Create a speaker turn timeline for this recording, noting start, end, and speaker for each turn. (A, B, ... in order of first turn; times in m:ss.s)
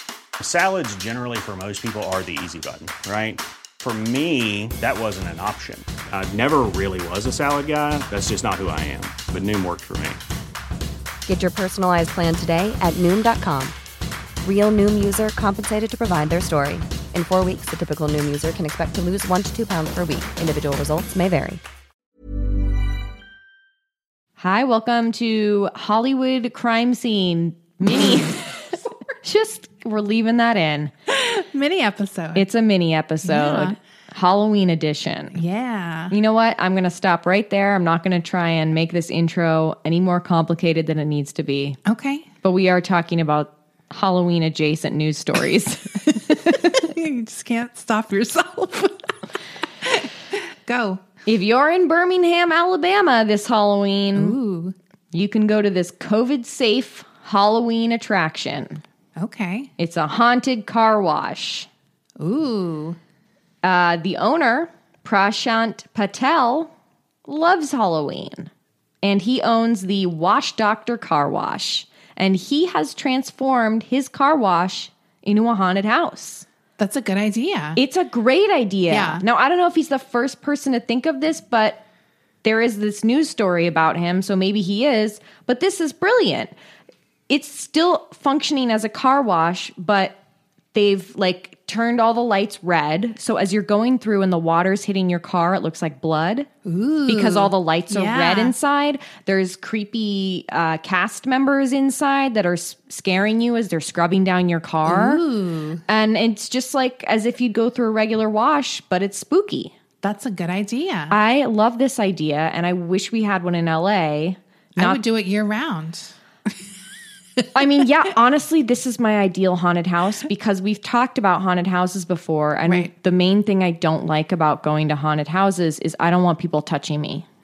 0:00.4-0:10.2 A
0:11.3-0:13.8 B
0:14.4-0:21.6 B
0:24.4-0:30.9 C
0:31.1-0:32.5 D
0:32.3-0:35.4 C
0:33.2-0:33.8 D
0:35.3-0:36.1 D
0:36.1-0:41.8 C
0:41.8-0:42.3 D
0:42.4-0:46.8 C
0:46.4-0:49.1 D
0:49.8-0:51.0 D
0:51.2-0:54.4 C
0:54.1-0:54.7 D
0:55.1-0:58.8 C
0:59.2-0:59.7 D
0:59.8-1:01.7 C
1:02.2-1:03.0 D
1:03.6-1:06.7 C
1:07.3-1:08.5 C
1:09.0-1:16.4 C
1:16.8-1:17.8 D
1:17.8-1:21.8 C
1:18.9-1:19.2 D
1:22.4-1:26.5 C
1:27.3-1:30.2 C
1:30.7-1:36.5 C
1:36.6-1:38.5 D
1:37.1-1:45.2 C
1:44.8-1:45.8 D
1:45.9-1:49.7 C
1:50.0-1:51.2 D
1:51.1-1:55.0 C
1:54.8-1:56.1 D
1:57.5-2:07.2 C
2:02.7-2:02.9 D